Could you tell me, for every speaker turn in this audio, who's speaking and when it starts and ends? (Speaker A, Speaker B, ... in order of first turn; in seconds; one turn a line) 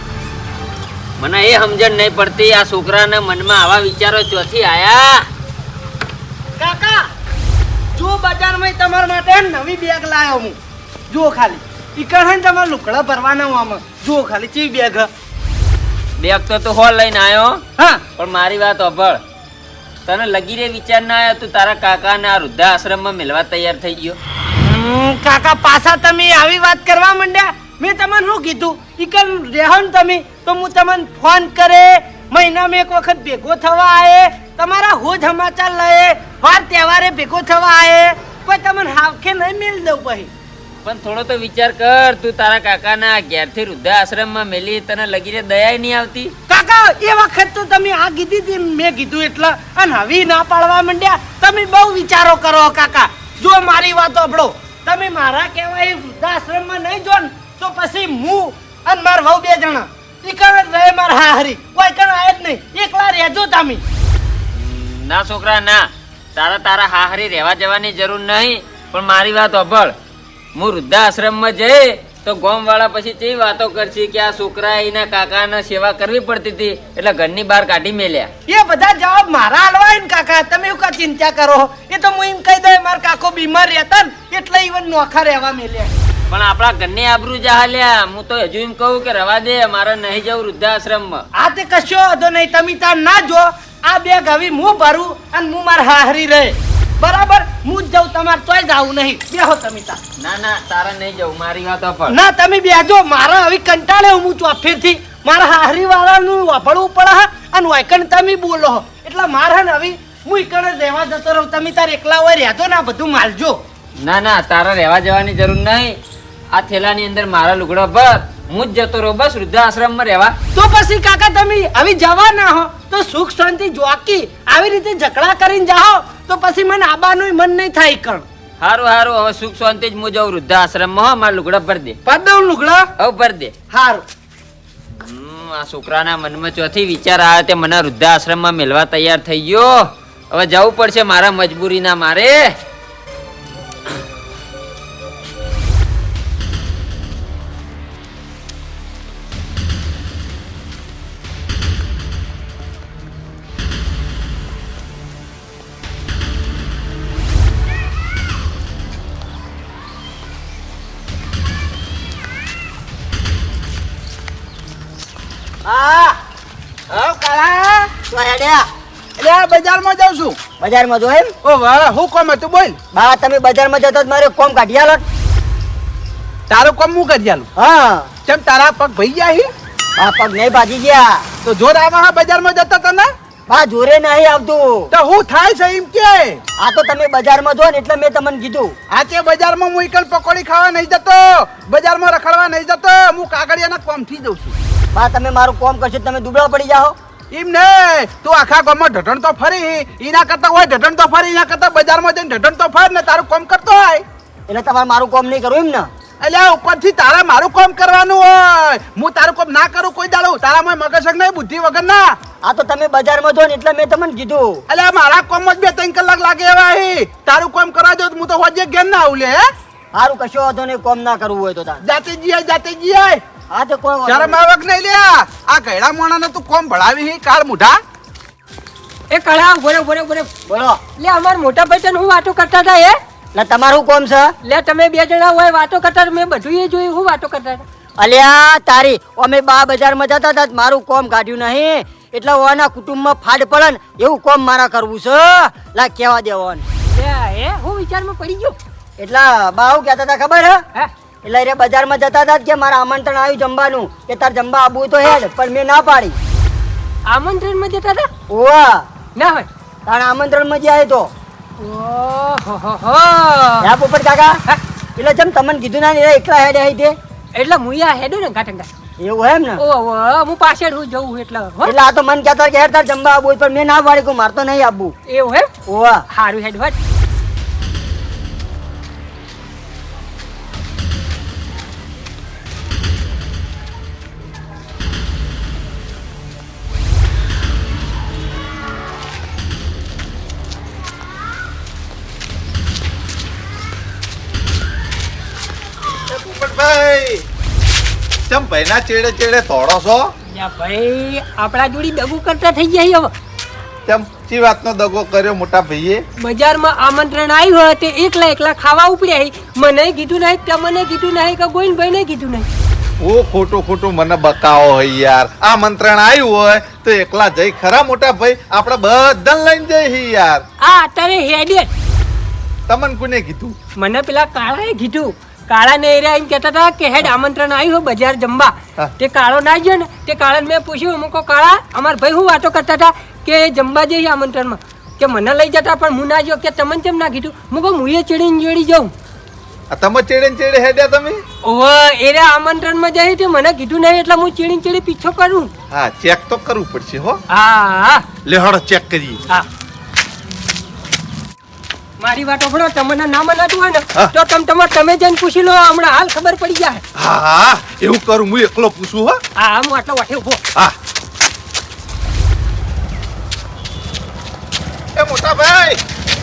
Speaker A: 1.2-5.3
Speaker B: 6.6-7.1
Speaker B: 7.9-10.6
Speaker B: 11.1-15.1
Speaker A: 16.2-17.6
Speaker B: 17.8-18.0
Speaker A: 18.1-19.2
Speaker A: 20.1-24.2
Speaker B: 24.6-40.3
Speaker A: 40.8-46.3
Speaker B: 46.5-63.8
Speaker A: 64.5-69.9
Speaker A: 70.5-78.3
Speaker B: 78.5-85.9
Speaker A: 86.3-91.2
Speaker B: 91.3-100.0
Speaker A: 100.2-102.2
Speaker B: 102.1-113.6
Speaker A: 114.0-116.0
Speaker A: 116.5-120.3
Speaker B: 120.5-128.2
Speaker A: 128.6-132.0
Speaker B: 132.1-132.9
Speaker A: 133.0-133.5
Speaker B: 133.7-134.0
Speaker A: 135.0-142.5
Speaker C: 165.6-166.2
Speaker D: 166.9-167.9
Speaker C: 168.0-168.7
Speaker D: 169.2-170.4
Speaker C: 170.6-171.3
Speaker D: 171.4-172.8
Speaker C: 172.9-175.0
Speaker D: 176.5-177.5
Speaker C: 177.6-178.1
Speaker D: 178.2-179.5
Speaker C: 180.0-181.2
Speaker D: 181.4-183.1
Speaker C: 183.5-184.9
Speaker D: 184.9-186.4
Speaker C: 186.6-188.7
Speaker D: 188.9-194.6
Speaker C: 194.9-196.9
Speaker D: 197.3-204.0
Speaker C: 204.5-205.9
Speaker D: 206.2-212.2
Speaker C: 212.4-214.6
Speaker D: 214.7-219.4
Speaker C: 219.9-221.8
Speaker D: 221.8-223.2
Speaker C: 223.5-224.4
Speaker D: 224.1-227.8
Speaker E: 229.1-230.3
Speaker C: 230.5-230.8
Speaker E: 231.0-233.0
Speaker C: 233.3-234.3
Speaker E: 234.4-237.6
Speaker C: 238.0-246.6
Speaker E: 246.9-248.6
Speaker C: 249.0-250.6
Speaker C: 251.2-256.2
Speaker E: 257.1-258.1
Speaker C: 258.3-258.9
Speaker E: 259.2-259.5
Speaker C: 259.9-261.1
Speaker E: 261.6-263.7
Speaker C: 263.6-264.4
Speaker C: 264.9-266.9
Speaker E: 267.3-268.7
Speaker C: 269.0-269.6
Speaker E: 269.6-271.7
Speaker C: 271.6-274.9
Speaker E: 275.1-275.5
Speaker C: 275.7-276.0
Speaker E: 276.1-276.8
Speaker F: 296.1-297.2
Speaker F: 298.3-300.1
Speaker E: 300.3-303.1
Speaker F: 303.9-306.0
Speaker E: 306.2-312.5
Speaker F: 313.0-320.4
Speaker E: 320.6-321.7
Speaker F: 322.7-323.5
Speaker E: 323.8-338.9
Speaker F: 339.7-341.2
Speaker E: 341.4-345.5
Speaker F: 345.7-347.2
Speaker E: 347.3-348.1
Speaker F: 348.2-349.2
Speaker E: 352.0-356.8
Speaker F: 356.9-359.2
Speaker E: 359.4-360.4
Speaker F: 364.9-365.8